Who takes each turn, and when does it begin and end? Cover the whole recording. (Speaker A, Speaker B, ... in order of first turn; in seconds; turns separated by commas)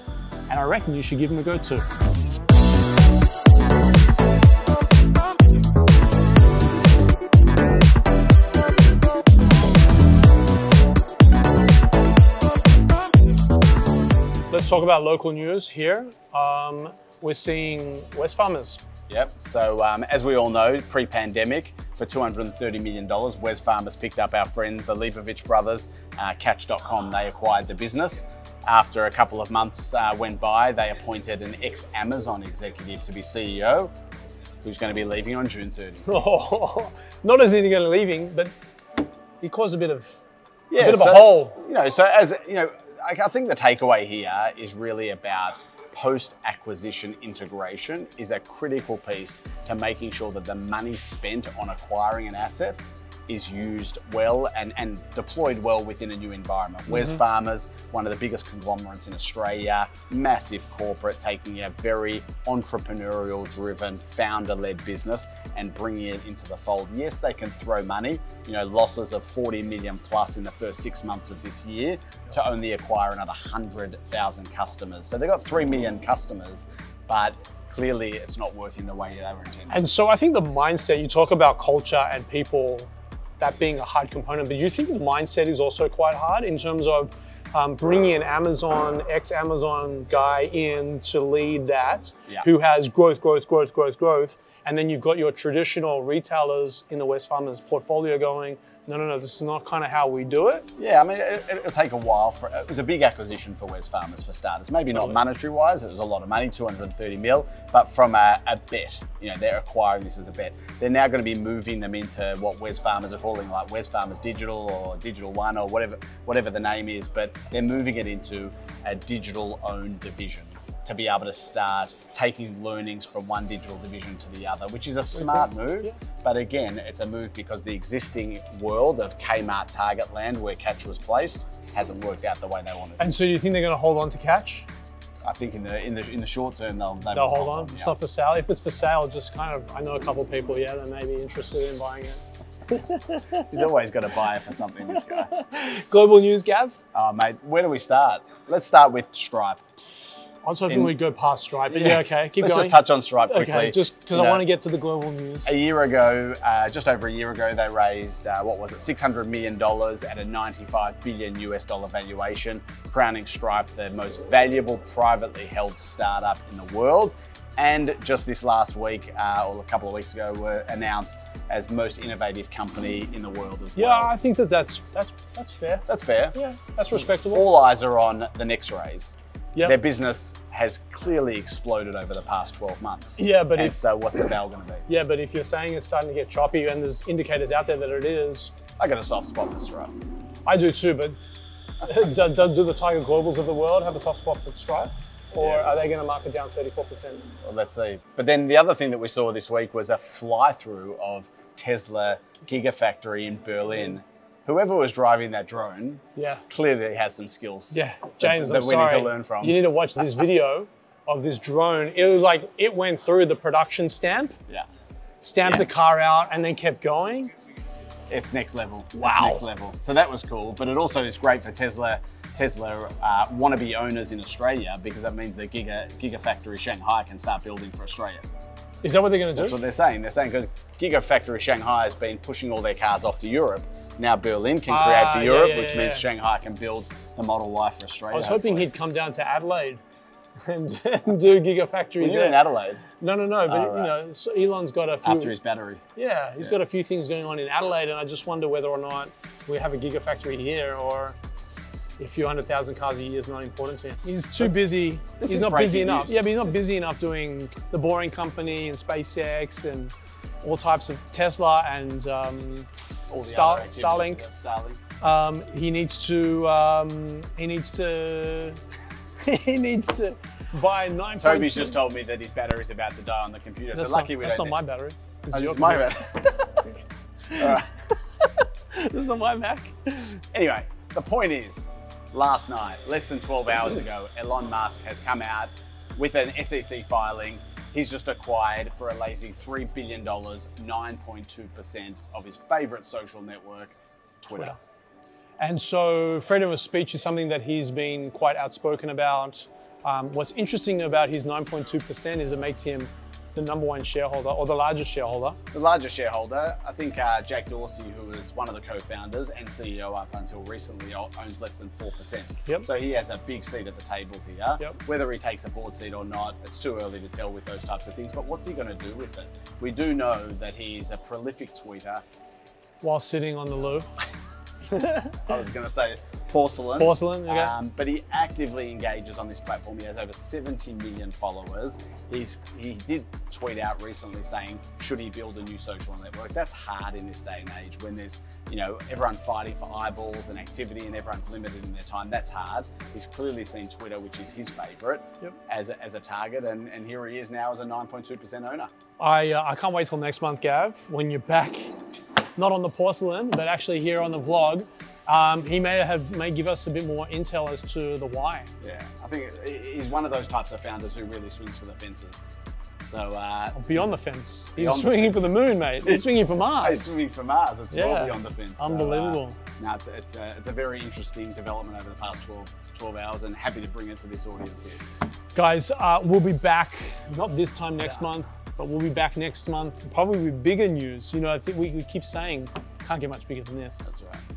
Speaker A: 0.5-1.9, Speaker A: 14.5-18.8, Speaker B: 19.1-33.9, Speaker B: 34.6-36.1, Speaker A: 36.0-38.5, Speaker A: 39.4-40.2, Speaker B: 40.7-79.8, Speaker A: 40.8-41.6, Speaker A: 79.7-100.7, Speaker B: 100.8-133.1, Speaker A: 125.1-125.9, Speaker A: 133.0-134.7, Speaker B: 135.2-137.9, Speaker A: 137.1-143.4, Speaker B: 143.5-145.3, Speaker A: 145.1-146.8, Speaker B: 146.9-149.6, Speaker A: 150.4-155.6, Speaker B: 150.7-150.9, Speaker B: 151.7-154.4, Speaker B: 155.4-174.1, Speaker A: 173.8-177.4, Speaker B: 175.9-176.3, Speaker B: 177.0-184.8, Speaker A: 183.2-183.8, Speaker A: 184.9-188.5, Speaker B: 188.8-189.9, Speaker A: 190.4-191.2, Speaker A: 191.8-197.2, Speaker B: 195.4-195.8, Speaker B: 197.4-209.6, Speaker A: 206.2-206.4, Speaker A: 207.7-214.3, Speaker A: 215.2-217.3, Speaker B: 218.1-228.2, Speaker A: 218.9-219.4, Speaker A: 228.8-229.6, Speaker B: 229.3-238.7, Speaker A: 234.7-236.1, Speaker A: 238.1-239.8, Speaker A: 240.4-242.4, Speaker B: 242.0-242.8, Speaker A: 243.0-245.3, Speaker B: 243.5-243.9, Speaker B: 245.0-245.8, Speaker A: 245.9-251.2, Speaker A: 252.0-262.7, Speaker B: 255.2-256.4, Speaker B: 263.1-264.8, Speaker A: 263.2-264.2, Speaker A: 265.0-268.6, Speaker A: 269.2-271.8, Speaker B: 271.2-274.6, Speaker A: 273.7-276.1, Speaker B: 275.3-276.5, Speaker A: 277.3-280.2, Speaker B: 277.4-277.7, Speaker B: 280.3-294.5, Speaker A: 294.3-294.6, Speaker A: 295.4-305.4, Speaker B: 305.5-322.0, Speaker A: 322.8-323.9, Speaker A: 324.7-325.2, Speaker B: 325.3-348.7, Speaker A: 326.8-327.5, Speaker A: 349.0-351.8, Speaker A: 352.4-358.5, Speaker B: 358.6-362.3, Speaker B: 362.8-364.0, Speaker A: 363.5-367.0, Speaker B: 364.5-374.8, Speaker A: 367.7-369.4, Speaker A: 375.3-383.9, Speaker B: 383.8-384.2